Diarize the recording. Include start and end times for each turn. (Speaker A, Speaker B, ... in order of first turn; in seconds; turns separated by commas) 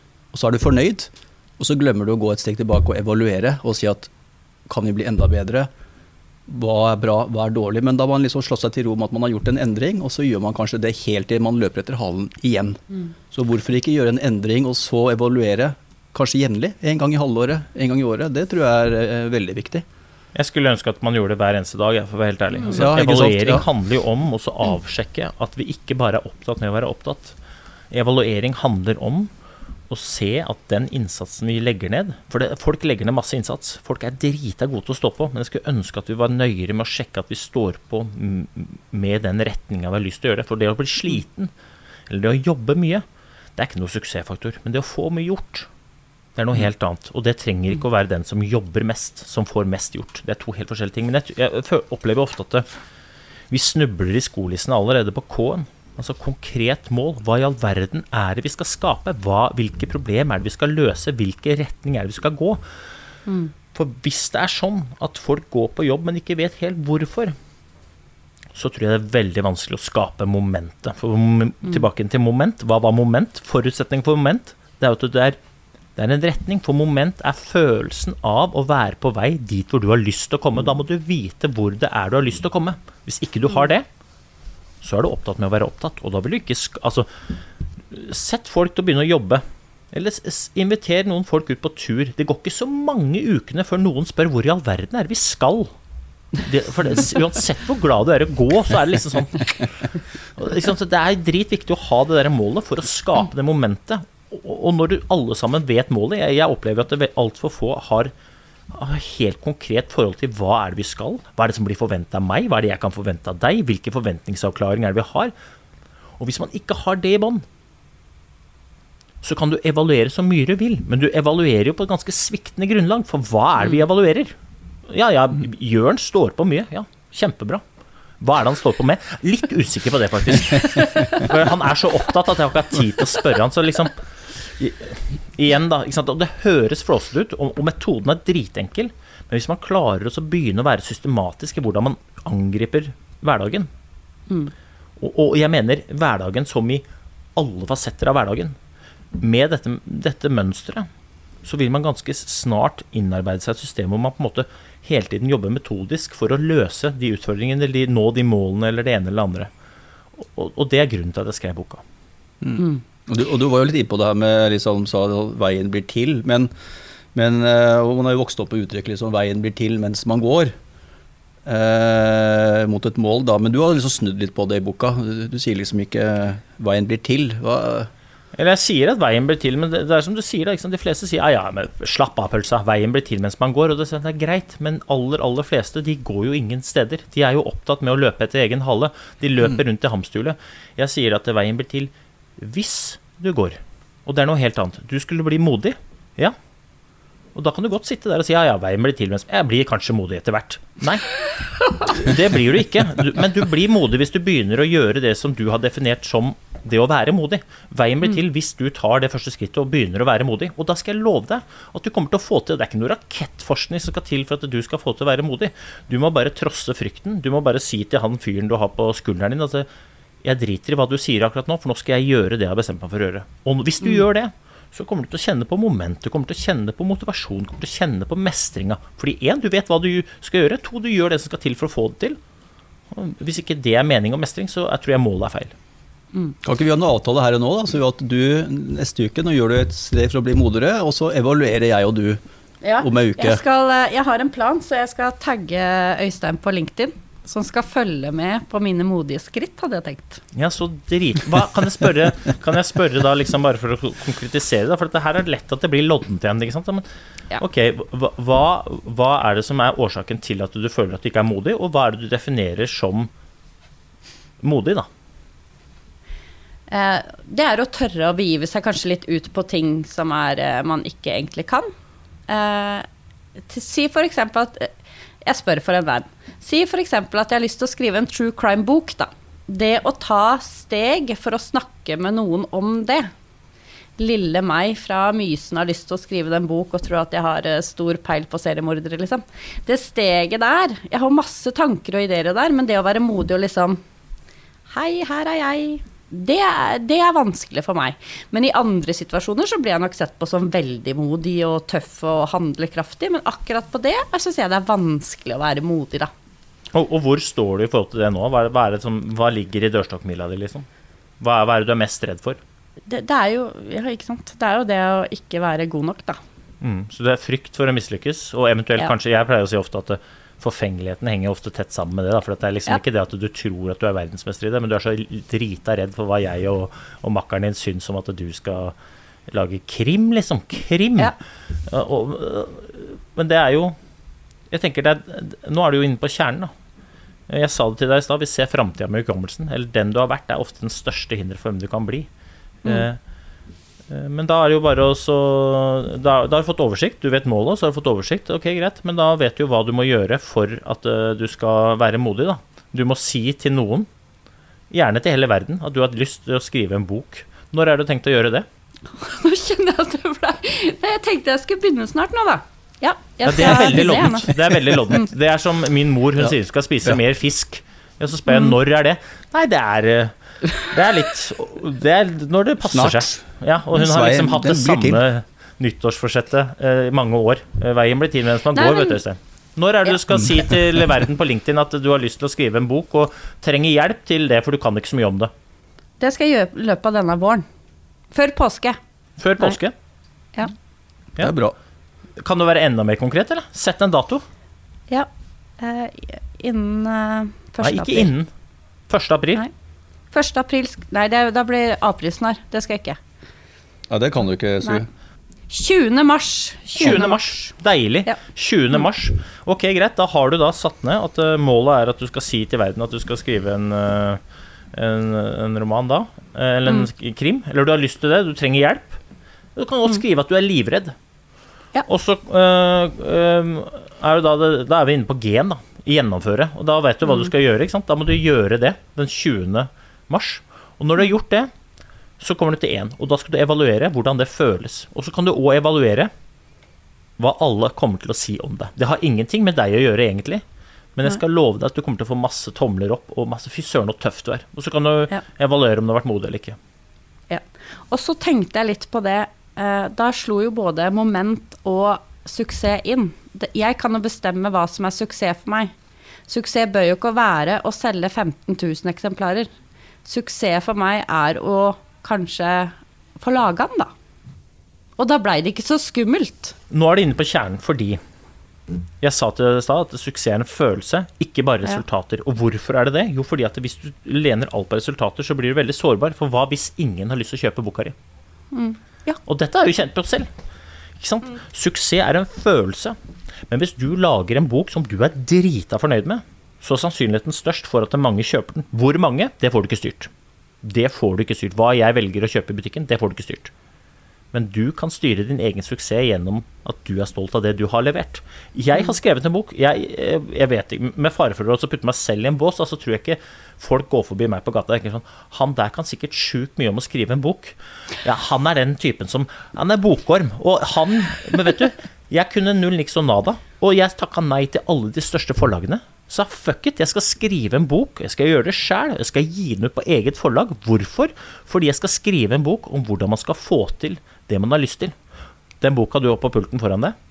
Speaker A: 0.3-4.1, Speaker A: 4.7-5.7, Speaker A: 6.5-19.8, Speaker B: 20.3-27.4, Speaker A: 22.7-23.6, Speaker B: 27.9-29.3, Speaker B: 29.9-41.5, Speaker B: 42.1-43.0, Speaker B: 43.5-45.7, Speaker B: 46.4-52.6, Speaker B: 53.5-62.6, Speaker B: 63.7-67.3, Speaker B: 68.5-75.4, Speaker B: 76.0-83.8, Speaker B: 84.8-87.1, Speaker B: 87.9-95.7, Speaker B: 96.4-108.1, Speaker B: 108.7-115.3, Speaker B: 116.2-117.4, Speaker B: 119.2-124.3, Speaker B: 124.9-127.6, Speaker B: 128.2-143.7, Speaker C: 130.6-131.2, Speaker B: 145.0-146.8, Speaker B: 147.3-148.6, Speaker B: 149.1-150.9, Speaker B: 151.4-159.5, Speaker B: 160.2-161.8, Speaker A: 162.4-166.5, Speaker A: 167.1-170.5, Speaker A: 171.4-177.9, Speaker B: 178.3-196.3, Speaker B: 197.3-201.1, Speaker B: 201.8-219.7, Speaker B: 220.2-232.2, Speaker B: 232.9-235.5, Speaker A: 236.4-242.2, Speaker C: 242.6-250.2, Speaker A: 242.8-243.4, Speaker B: 250.3-256.8, Speaker B: 257.4-263.1, Speaker B: 264.4-264.9, Speaker C: 266.7-271.7, Speaker C: 272.3-272.9, Speaker C: 273.4-274.7, Speaker C: 275.2-283.1, Speaker C: 284.0-293.8, Speaker C: 294.7-306.1, Speaker B: 306.7-310.6, Speaker B: 311.2-312.4, Speaker C: 312.9-316.2, Speaker B: 316.6-328.7, Speaker B: 329.3-331.1, Speaker B: 331.7-333.8, Speaker B: 334.5-336.5, Speaker B: 337.3-342.1, Speaker B: 342.6-343.0, Speaker B: 343.9-353.9, Speaker B: 354.7-358.4, Speaker C: 358.9-365.0, Speaker B: 363.2-385.3, Speaker C: 368.3-368.5, Speaker A: 372.7-375.0, Speaker C: 378.5-379.0, Speaker C: 386.0-387.4, Speaker C: 388.1-388.8, Speaker B: 389.2-389.7, Speaker A: 391.2-391.5, Speaker B: 392.2-394.2, Speaker C: 394.9-398.1, Speaker B: 397.6-398.3, Speaker B: 398.9-399.4, Speaker C: 400.1-403.0, Speaker A: 403.9-404.9, Speaker C: 405.5-407.5, Speaker B: 406.8-414.2, Speaker B: 414.7-419.0, Speaker B: 419.6-420.9, Speaker B: 421.9-431.5, Speaker B: 432.2-436.1, Speaker B: 437.2-440.4, Speaker B: 440.9-446.6, Speaker C: 447.3-455.7, Speaker C: 456.3-459.5, Speaker C: 460.0-463.9, Speaker C: 465.0-466.5, Speaker B: 466.7-468.0, Speaker B: 469.0-477.9, Speaker C: 478.5-479.1, Speaker B: 479.2-480.3, Speaker B: 481.0-482.9, Speaker B: 483.5-490.1, Speaker B: 490.6-493.5, Speaker B: 494.3-524.9, Speaker B: 525.6-526.9